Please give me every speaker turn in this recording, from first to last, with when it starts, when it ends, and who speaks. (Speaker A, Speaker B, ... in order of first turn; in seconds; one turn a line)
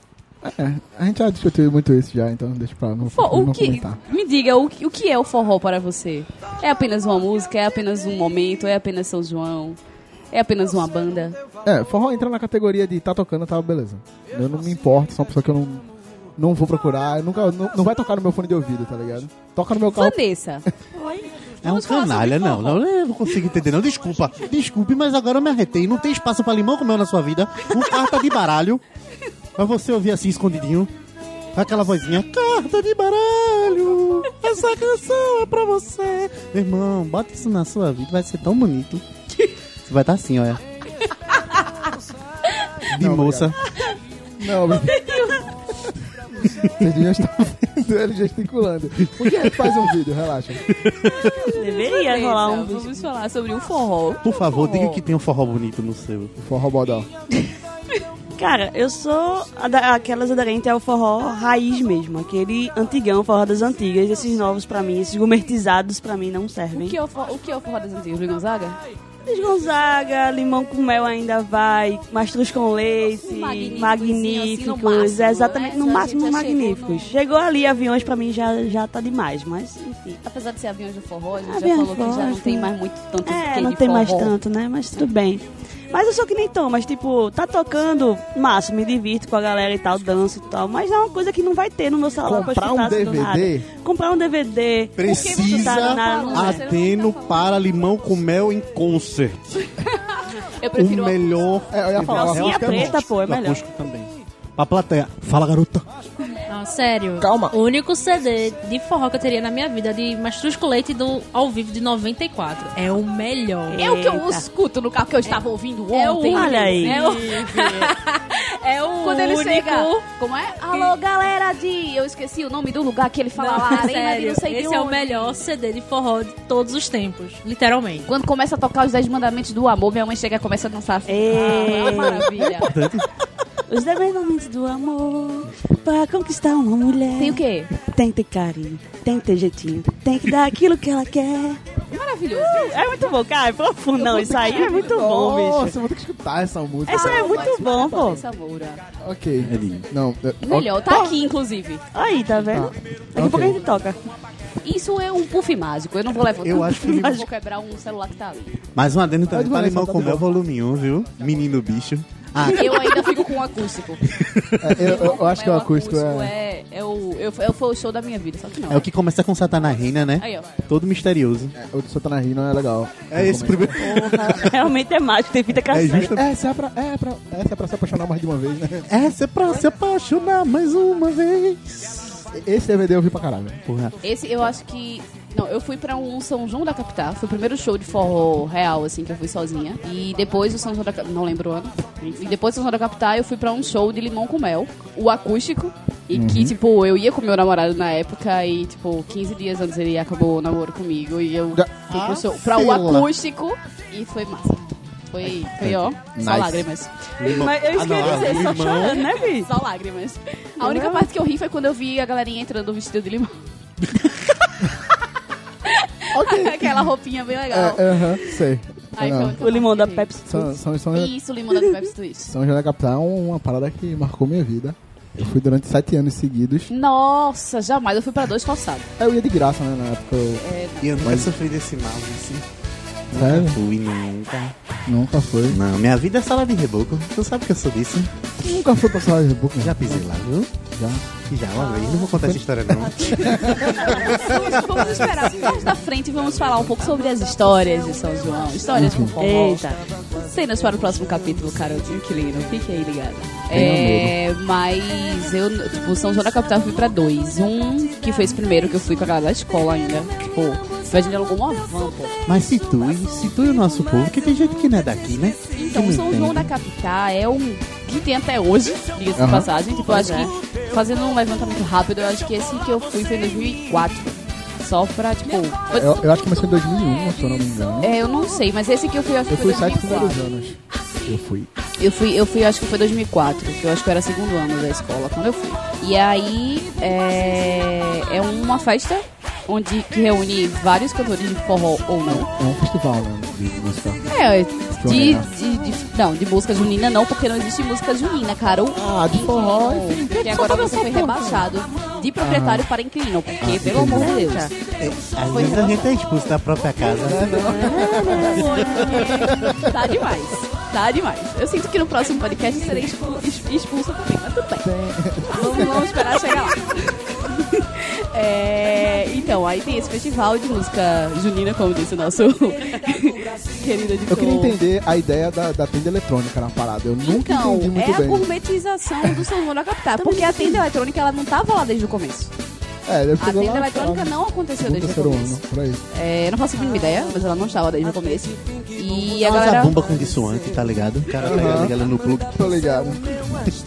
Speaker A: 0.4-4.0
Speaker B: 3.0-9.8
Speaker B: 10.3-11.4
Speaker A: 11.7-15.8
Speaker A: 16.4-20.2
Speaker B: 19.9-20.6
Speaker C: 20.9-21.3
Speaker B: 21.6-22.8
Speaker D: 21.6-28.8
Speaker D: 29.6-30.9
Speaker D: 31.5-39.0
Speaker D: 39.9-40.6
Speaker D: 42.9-43.6
Speaker A: 42.9-43.6
Speaker A: 44.4-45.1
Speaker B: 44.9-45.4
Speaker A: 46.6-50.6
Speaker D: 50.7-51.5
Speaker C: 51.5-53.0
Speaker B: 51.5-55.0
Speaker D: 54.2-56.3
Speaker A: 56.4-57.1
Speaker C: 58.4-67.0
Speaker B: 66.7-68.8
Speaker C: 69.2-80.2
Speaker B: 73.2-77.1
Speaker B: 80.2-84.3
Speaker C: 81.5-82.7
Speaker C: 83.2-96.6
Speaker A: 92.2-93.7
Speaker D: 95.0-99.5
Speaker B: 95.0-97.5
Speaker B: 99.8-101.3
Speaker D: 100.7-105.8
Speaker A: 101.7-103.0
Speaker C: 102.0-103.6
Speaker E: 106.5-113.8
Speaker A: 107.2-107.5
Speaker C: 113.7-114.4
Speaker B: 113.7-117.9
Speaker E: 115.9-120.0
Speaker C: 116.3-117.1
Speaker B: 119.0-125.4
Speaker E: 120.7-121.0
Speaker E: 123.3-128.1
Speaker B: 128.0-132.7
Speaker C: 131.1-132.3
Speaker D: 132.4-133.1
Speaker C: 133.7-141.6
Speaker B: 137.2-137.7
Speaker B: 141.9-142.9
Speaker C: 142.3-145.7
Speaker B: 144.0-144.9
Speaker A: 144.1-147.6
Speaker C: 146.9-148.2
Speaker B: 146.9-148.8
Speaker A: 149.0-151.2
Speaker D: 149.4-149.9
Speaker B: 150.4-151.8
Speaker C: 151.9-154.0
Speaker A: 152.5-153.6
Speaker B: 154.6-158.6
Speaker D: 156.4-157.2
Speaker C: 156.8-157.2
Speaker D: 158.8-163.1
Speaker A: 159.3-160.2
Speaker B: 162.4-164.1
Speaker D: 164.1-165.0
Speaker A: 164.6-166.3
Speaker B: 164.7-168.9
Speaker D: 168.7-171.5
Speaker B: 170.2-170.5
Speaker A: 171.5-174.0
Speaker D: 173.1-174.6
Speaker C: 173.8-176.2
Speaker D: 175.7-176.2
Speaker A: 176.0-178.9
Speaker D: 178.9-182.2
Speaker A: 182.3-183.6
Speaker D: 183.7-183.9
Speaker B: 184.0-213.4
Speaker A: 196.1-196.6
Speaker A: 201.5-201.9
Speaker D: 201.9-203.0
Speaker A: 202.7-203.0
Speaker A: 205.7-206.7
Speaker D: 207.2-209.1
Speaker C: 207.2-209.5
Speaker C: 210.6-211.1
Speaker B: 215.7-218.3
Speaker A: 216.1-216.9
Speaker A: 217.5-219.4
Speaker B: 218.9-222.3
Speaker C: 219.4-220.4
Speaker A: 220.2-221.1
Speaker A: 222.3-226.7
Speaker B: 226.7-228.9
Speaker A: 229.0-230.4
Speaker B: 230.4-231.2
Speaker D: 230.8-232.4
Speaker A: 231.0-231.3
Speaker A: 233.1-233.6
Speaker D: 233.1-234.5
Speaker A: 234.8-235.6
Speaker D: 235.5-238.1
Speaker A: 238.4-240.1
Speaker D: 239.6-240.5
Speaker A: 240.7-241.1
Speaker D: 241.3-245.0
Speaker B: 241.6-242.1
Speaker A: 242.1-244.1
Speaker B: 243.2-262.1
Speaker A: 248.7-249.2
Speaker C: 249.2-249.8
Speaker A: 253.5-254.2
Speaker D: 262.3-266.5
Speaker B: 265.5-275.9
Speaker A: 269.2-269.5
Speaker C: 269.9-270.3
Speaker A: 275.7-277.9
Speaker B: 277.8-280.3
Speaker A: 279.3-281.5
Speaker B: 281.8-292.3
Speaker A: 292.1-294.1
Speaker B: 294.1-304.5
Speaker A: 294.8-295.3
Speaker A: 298.7-301.4
Speaker A: 302.2-302.7
Speaker A: 303.4-304.2
Speaker C: 303.8-304.5
Speaker D: 304.8-307.7
Speaker B: 305.3-305.9
Speaker A: 307.0-309.9
Speaker C: 307.4-309.3
Speaker B: 308.3-314.7
Speaker A: 314.6-315.9
Speaker B: 315.2-324.6
Speaker A: 324.1-328.3
Speaker B: 327.0-332.3
Speaker C: 330.0-330.6
Speaker A: 332.9-335.8
Speaker B: 333.2-335.4
Speaker B: 335.9-339.8
Speaker D: 339.2-342.5
Speaker A: 341.2-341.7
Speaker A: 342.3-343.5